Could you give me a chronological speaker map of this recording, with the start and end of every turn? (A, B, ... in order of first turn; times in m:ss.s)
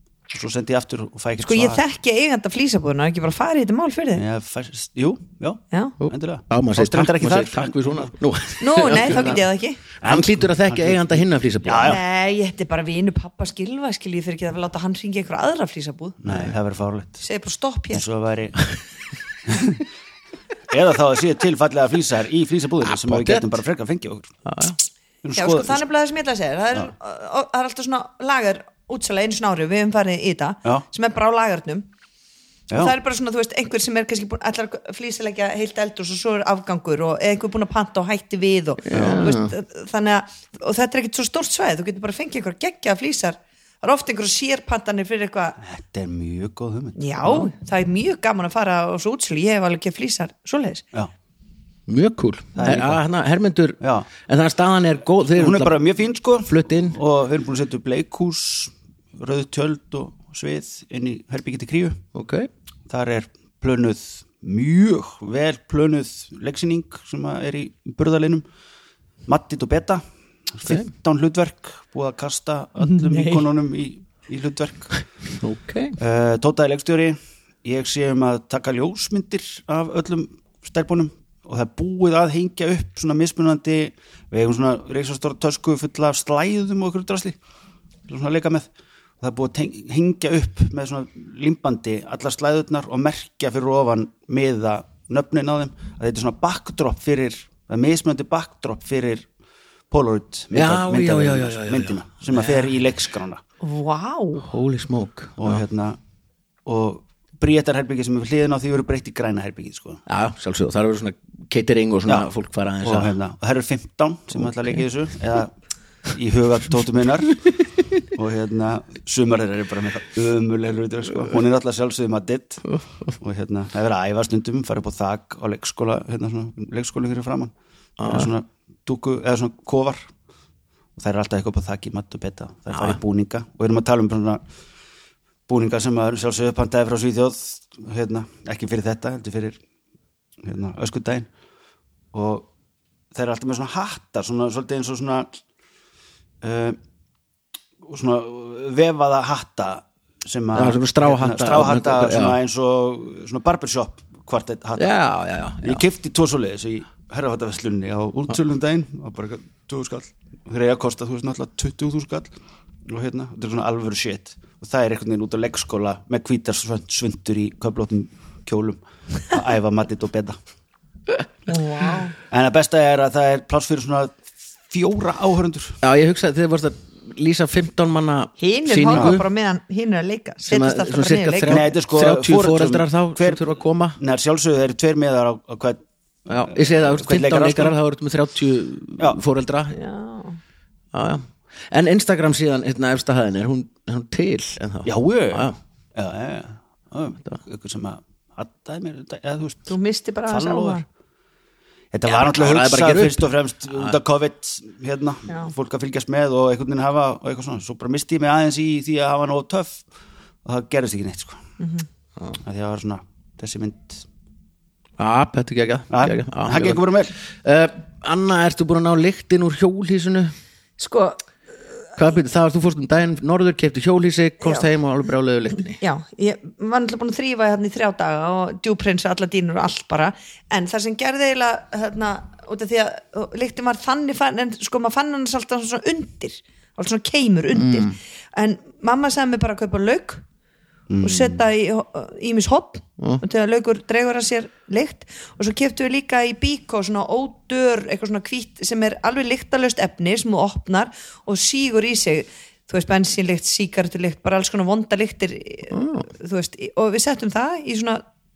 0:00.3-0:01.8 A
0:01.4-0:04.2 B
0:04.2-0:08.1 A
0:06.0-0:09.4 C
0:08.6-0:09.8 B
0:08.8-0:09.4 A
0:10.0-0:12.0 A
0:10.0-0:12.0 C
0:11.8-0:16.2 B
0:16.2-0:17.2 A
0:16.3-0:16.5 C
0:17.2-0:18.0 B
0:17.9-0:18.6 A
0:19.5-0:19.8 A
0:20.7-0:24.3 A
0:22.8-0:23.5 C
0:24.4-0:24.8 C
0:25.2-0:25.8 A
0:25.3-0:31.8 B
0:32.7-0:32.9 A
0:32.7-0:45.6 B
0:38.8-0:39.5 C
0:38.9-0:39.2 A
0:45.6-0:47.4 A
0:47.0-0:50.8 B
0:51.9-0:55.8 C
0:52.5-0:53.0 A
0:53.8-0:54.1 A
0:55.4-1:02.0 A
0:56.4-0:57.0 C
1:02.1-1:02.5 C
1:02.9-1:08.4 A
1:09.3-1:15.0 A
1:12.8-1:13.4 B
1:15.4-1:16.0 C
1:16.0-1:27.4 A
1:28.1-1:28.6 A
1:29.2-1:39.3 A
1:39.9-1:43.4 A
1:40.5-1:42.7 C
1:43.6-1:44.5 B
1:44.4-1:45.6 C
1:45.4-1:46.0 A
1:46.6-1:50.0 A
1:50.1-1:53.1 C
1:52.8-1:55.5 A
1:54.3-1:54.8 C
1:56.1-1:57.5 A
1:58.0-2:02.6 A
2:02.7-2:03.1 C
2:03.2-2:07.5 A
2:08.0-2:08.3 C
2:08.0-2:10.0 A
2:11.0-2:14.4 A
2:12.7-2:13.0 C
2:15.5-2:19.6 A
2:20.4-2:21.3 A
2:22.1-2:22.5 A
2:23.1-2:25.3 A
2:26.4-2:26.8 A
2:27.8-2:34.9 A
2:30.5-2:32.4 C
2:34.8-2:35.8 C
2:35.6-2:42.3 A
2:42.9-2:50.4 A
2:51.5-2:52.1 B
2:52.3-2:54.2 A
2:54.7-2:55.8 A
2:55.8-2:59.2 C
2:58.4-3:01.6 B
3:00.4-3:04.0 C
3:01.5-3:07.7 A
3:06.3-3:09.8 C
3:09.7-3:10.4 B
3:10.9-3:15.6 C
3:14.8-3:19.7 A
3:19.7-3:20.8 B
3:20.3-3:20.8 A
3:21.9-3:29.8 A
3:22.0-3:23.9 C
3:30.4-3:31.4 A
3:31.6-3:31.8 B
3:32.4-3:34.0 A
3:35.0-3:36.8 C
3:35.9-3:37.1 A
3:37.4-3:40.3 C
3:40.8-3:41.2 B
3:42.0-3:45.8 C
3:45.8-4:00.2 B
3:57.5-3:58.0 C
4:00.9-4:01.4 A
4:01.0-4:18.0 B
4:15.7-4:16.0 C